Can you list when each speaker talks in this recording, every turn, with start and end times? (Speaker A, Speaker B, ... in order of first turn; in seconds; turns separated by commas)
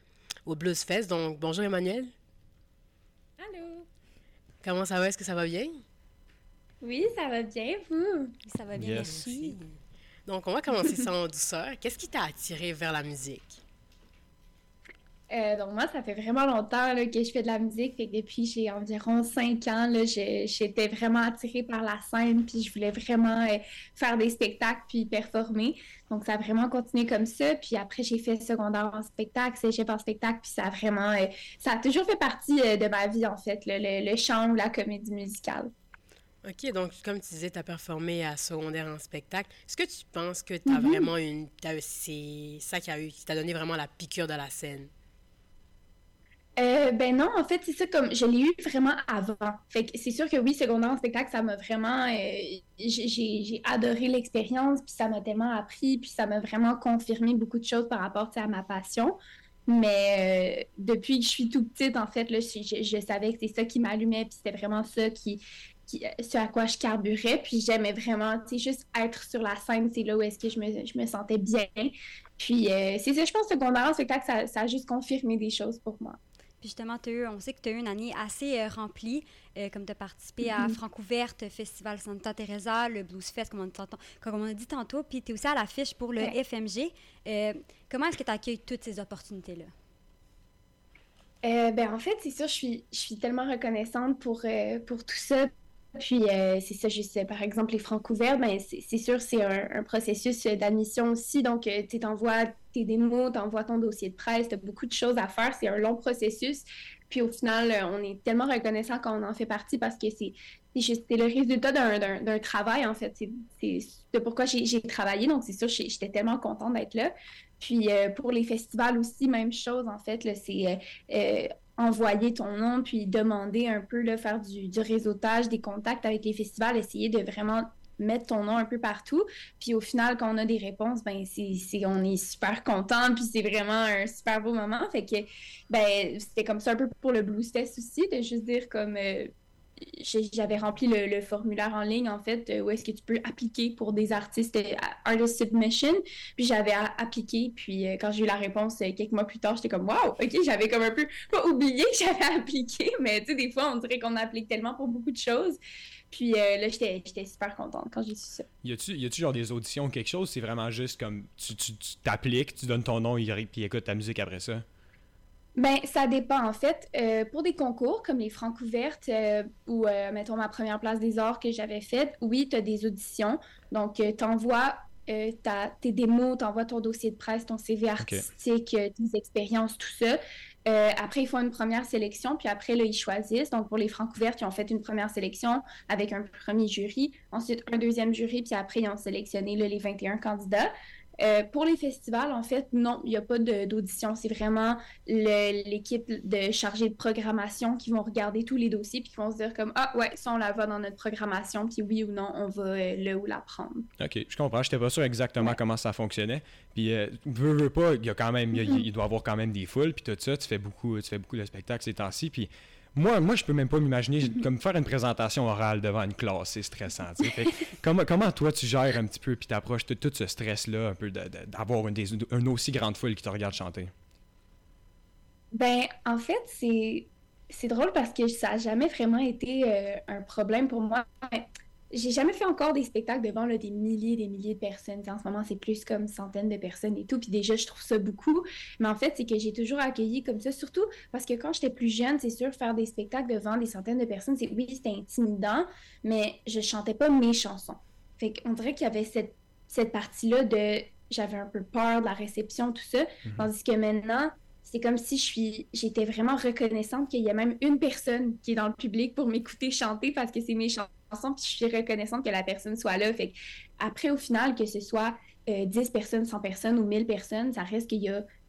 Speaker A: 0.4-2.1, Speaker B: 3.4-3.9, Speaker A: 4.6-5.8, Speaker B: 6.8-8.3, Speaker C: 8.4-9.6, Speaker D: 8.7-9.3, Speaker A: 9.0-9.8, Speaker A: 10.3-13.6, Speaker B: 15.3-35.7, Speaker A: 36.4-44.9, Speaker B: 40.7-41.1, Speaker B: 46.6-76.2, Speaker C: 76.6-89.7, Speaker B: 80.4-80.8, Speaker B: 91.4-139.3, Speaker B: 140.0-155.6, Speaker B: 156.1-158.4, Speaker D: 158.6-164.6, Speaker B: 165.6-203.9, Speaker D: 178.0-178.2, Speaker D: 204.0-223.9, Speaker B: 225.5-268.2